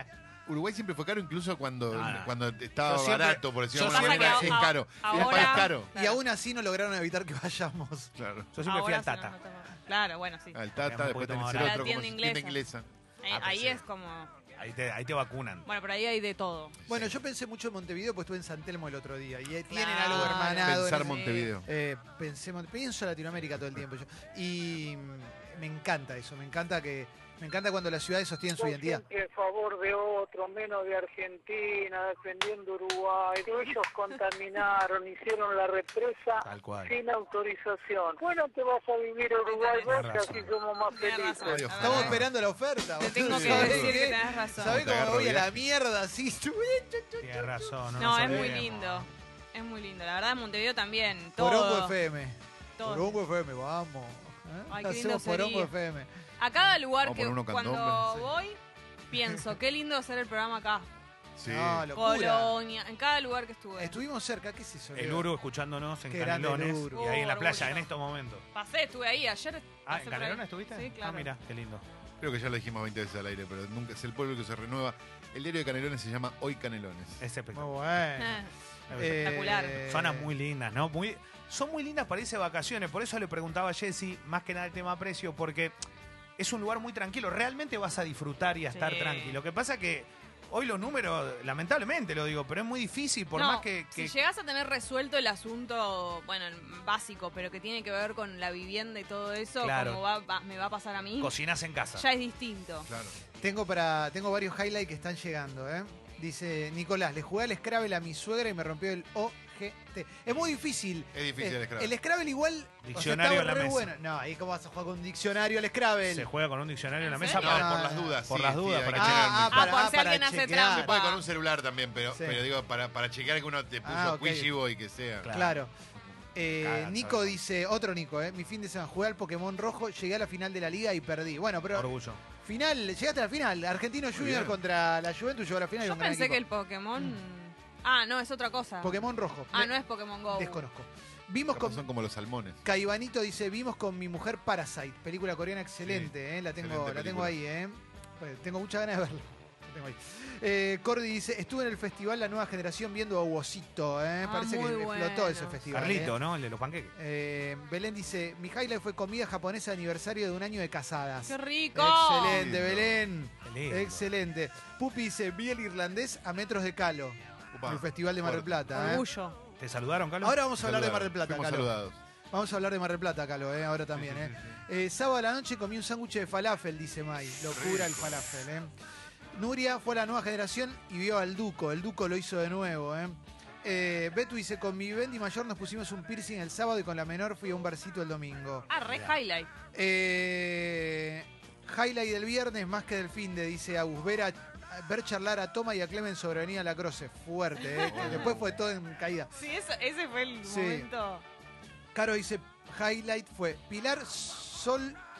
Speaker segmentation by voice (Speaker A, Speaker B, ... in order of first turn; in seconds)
Speaker A: 0.5-5.9, 8.2-8.5, 10.5-12.9, 16.9-17.1, 20.1-21.7, 41.4-42.3, 43.2-44.0, 44.6-45.6, 57.0-58.1, 61.4-61.9, 72.2-77.2, 102.9-103.2, 111.1-111.9, 117.3-119.8, 120.7-125.3, 134.1-134.6, 141.5-142.6, 145.8-147.3, 162.3-163.0, 167.5-168.8, 170.6-172.0, 173.9-174.6, 177.5-178.3, 197.8-198.6
Speaker B: 1.9-4.6, 5.2-5.5, 8.5-9.3, 10.8-12.0, 13.3-13.8, 14.6-15.7, 36.4-36.9, 39.8-40.5, 47.2-49.1, 64.9-68.4, 69.8-71.8, 77.2-77.7, 78.9-85.7, 86.4-94.1, 99.6-100.0, 101.2-102.0, 112.8-113.9, 116.1-119.4, 125.2-125.6, 126.6-127.4, 131.7-132.2, 155.7-156.9, 163.4-164.1, 169.6-170.4
Speaker C: 3.8-6.2, 8.6-10.6, 11.5-12.6, 13.2-14.3, 15.7-16.8, 19.7-21.5, 39.5-40.0, 40.9-42.2, 43.0-44.8, 48.0-52.0, 52.8-53.2, 54.7-55.7, 56.4-58.6, 59.1-60.9, 62.0-64.0, 66.9-67.9, 68.5-71.3, 78.2-78.5, 79.2-79.8, 88.7-89.4, 93.3-101.3, 101.9-102.9, 117.0-117.6, 119.5-121.2, 135.8-139.0, 139.5-140.6, 154.2-155.7, 161.3-162.5, 168.7-169.4, 188.7-189.5, 197.7-198.3, 199.3-201.2
Speaker D: 5.1-8.1, 16.9-29.0, 41.8-48.5, 51.4-56.1, 61.5-62.5, 63.8-65.3, 66.1-67.0, 77.5-80.3, 103.4-116.3, 117.4-118.2, 118.9-120.9, 122.1-122.4, 123.8-124.5, 125.3-125.7, 126.3-131.9, 132.4-136.4, 138.8-139.7, 140.3-141.8, 142.6-156.2, 156.9-169.0, 170.2-171.7, 172.3-178.7, 179.3-188.7, 189.7-199.3, 200.4-200.9, 201.9-205.0
Speaker E: 28.6-41.8